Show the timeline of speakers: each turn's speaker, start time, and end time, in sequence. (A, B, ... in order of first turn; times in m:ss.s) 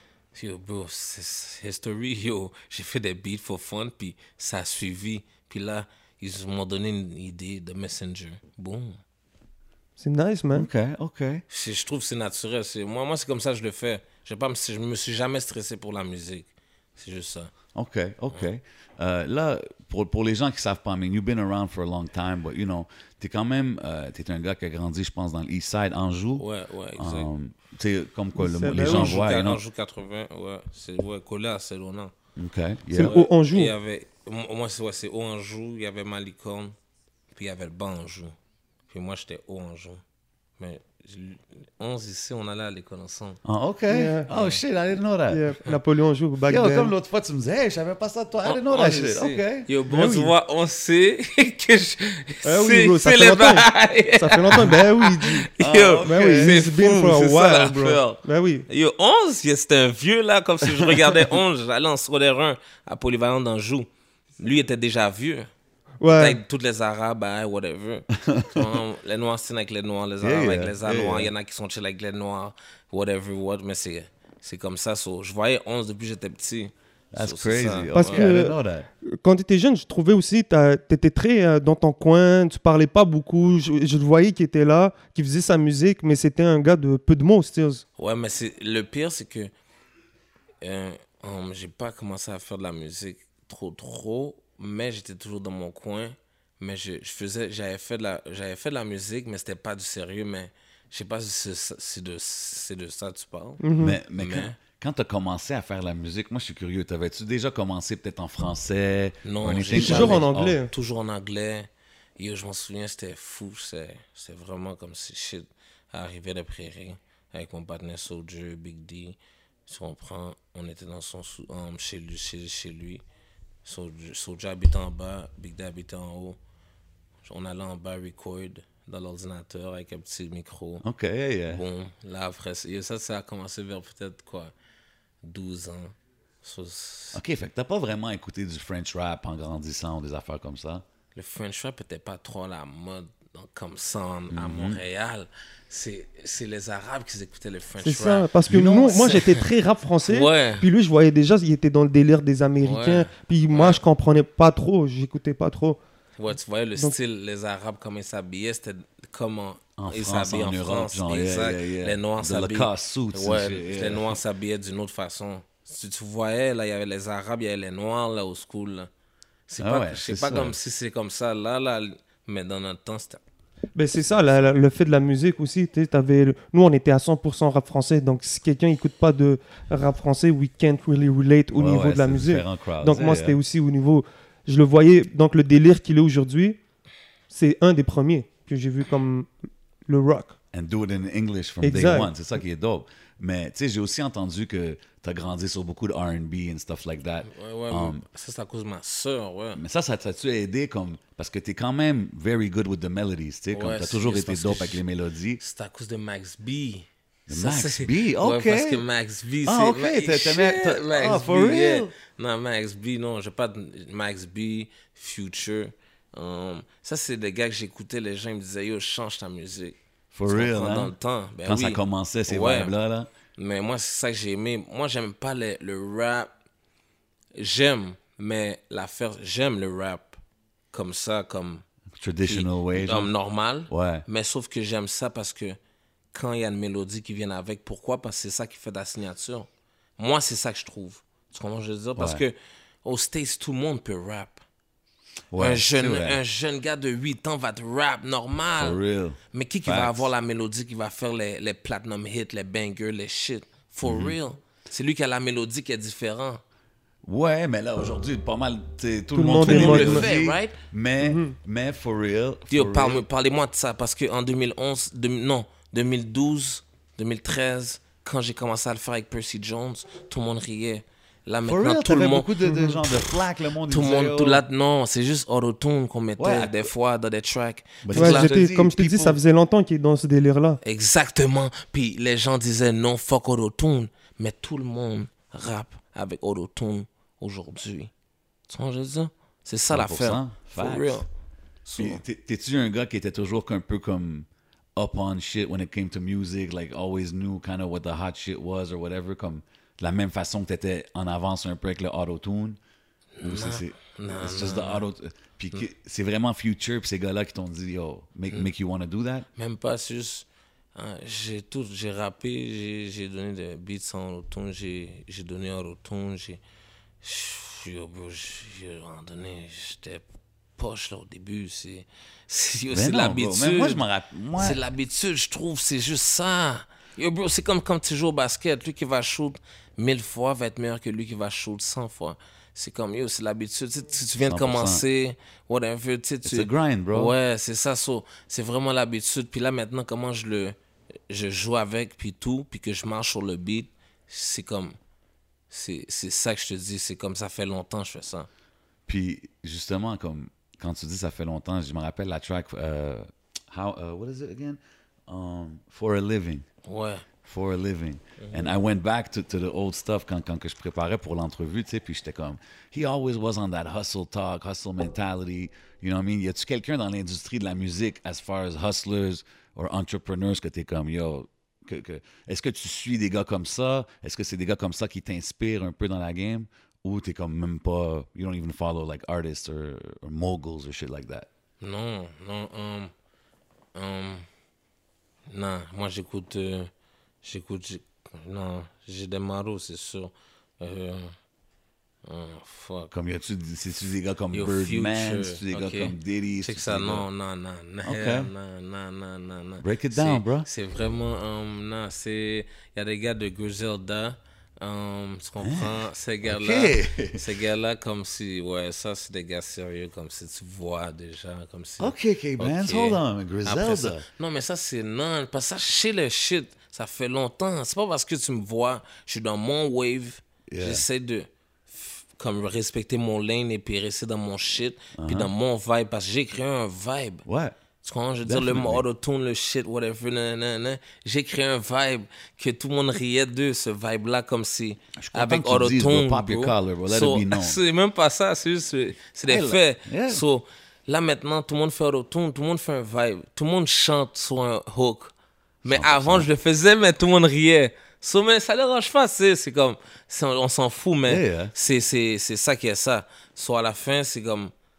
0:00.3-0:09.0 A
0:10.0-0:10.7 B
0:10.5-0:11.4 C
0:11.5-0:17.5 A
0:17.8-0:26.4 C
0:26.4-0:27.3 A
0:27.0-0:29.6 C
0:28.4-0:29.2 B
0:28.7-0:32.1 A
0:32.4-0:33.2 C
0:32.9-0:33.8 B
0:33.0-0:36.8 A
0:37.4-0:38.4 A
0:38.9-0:40.0 A
0:40.6-0:43.4 A
0:43.4-0:45.5 C
0:43.9-0:44.3 B
0:44.3-0:44.6 A
0:45.3-0:46.9 B
0:46.5-0:49.7 C
0:48.4-1:03.9 A
0:49.9-0:50.3 B
0:52.4-0:55.5 B
0:55.6-0:56.6 C
0:56.0-0:58.6 B
1:04.4-1:05.5 A
1:06.0-1:06.4 B
1:06.0-1:18.2 A
1:08.2-1:08.7 C
1:10.2-1:11.3 C
1:17.1-1:18.9 C
1:17.9-1:27.8 B
1:28.0-1:29.5 A
1:30.6-1:44.6 A
1:43.6-1:44.0 B
1:43.8-1:50.6 C
1:49.2-2:03.0 A
1:49.7-1:50.7 B
2:03.6-2:06.4 A
2:07.2-2:10.8 A
2:10.8-2:11.6 C
2:11.5-2:14.5 A
2:15.2-2:17.2 A
2:17.1-2:20.8 C
2:21.2-2:29.4 A
2:24.3-2:24.8 C
2:27.8-2:35.8 B
2:28.5-2:29.1 C
2:30.0-2:30.7 A
2:32.6-2:33.8 A
2:36.2-2:48.9 A
2:39.8-2:44.2 C
2:49.5-2:53.2 A
2:49.6-2:50.6 C
2:53.8-3:06.6 B
3:01.6-3:03.4 C
3:07.3-3:09.3 B
3:09.9-3:10.4 B
3:10.5-3:18.0 C
3:11.6-3:12.1 B
3:17.3-3:19.6 A
3:19.6-3:25.4 C
3:23.5-3:24.8 A
3:25.4-3:39.8 A
3:27.3-3:28.8 C
3:29.5-3:31.9 C
3:40.1-3:40.9 C
3:40.3-3:42.7 A
3:41.4-3:43.1 C
3:43.4-3:46.3 A
3:47.4-3:50.2 A
3:50.7-3:51.6 A
3:52.0-3:53.1 C
3:52.2-3:55.6 A
3:53.7-3:54.0 C
3:56.1-4:04.4 A
4:02.0-4:02.2 C
4:05.3-4:06.2 C
4:05.4-4:08.8 A
4:08.6-4:10.1 C
4:09.3-4:16.4 A
4:13.8-4:14.2 C
4:17.0-4:23.0 C
4:19.2-4:20.1 B
4:19.4-4:20.5 A
4:21.0-4:21.4 B
4:22.5-4:38.3 A
4:31.5-4:34.4 C
4:32.5-4:32.8 B
4:36.2-4:36.7 C
4:37.8-4:39.2 C
4:38.0-4:40.6 B
4:40.6-4:47.9 A
4:48.5-4:51.1 A
4:49.7-4:51.0 C
4:51.6-4:52.0 A
4:51.8-5:02.6 C
5:03.2-5:04.8 A
5:03.2-5:09.3 C
5:09.4-5:16.4 A
5:17.0-5:20.0 A
5:20.6-5:23.8 A
5:22.7-5:24.6 C
5:24.4-5:40.6 A
5:34.2-5:34.8 C
5:36.2-5:37.2 C
5:41.1-5:44.8 A
5:45.5-5:48.3 A
5:48.9-5:56.4 C
5:56.6-5:57.0 A
5:57.2-6:21.3 C
5:58.2-5:58.6 A
6:21.6-6:22.9 A
6:23.8-6:24.3 A
6:25.3-6:26.7 A
6:27.2-6:31.2 A
6:32.0-6:32.9 A
6:32.9-6:37.0 C
6:34.3-7:07.2 A
6:37.8-6:38.3 C
6:39.6-6:40.5 C
6:45.4-6:47.2 C
6:51.8-6:54.0 C
7:00.5-7:00.9 C
7:05.0-7:05.3 C
7:07.3-7:07.6 C
7:07.8-7:25.1 A
7:08.2-7:08.8 C
7:15.0-7:17.6 C
7:19.3-7:20.2 C
7:25.6-7:34.5 A
7:25.6-7:26.3 C
7:31.1-7:31.5 C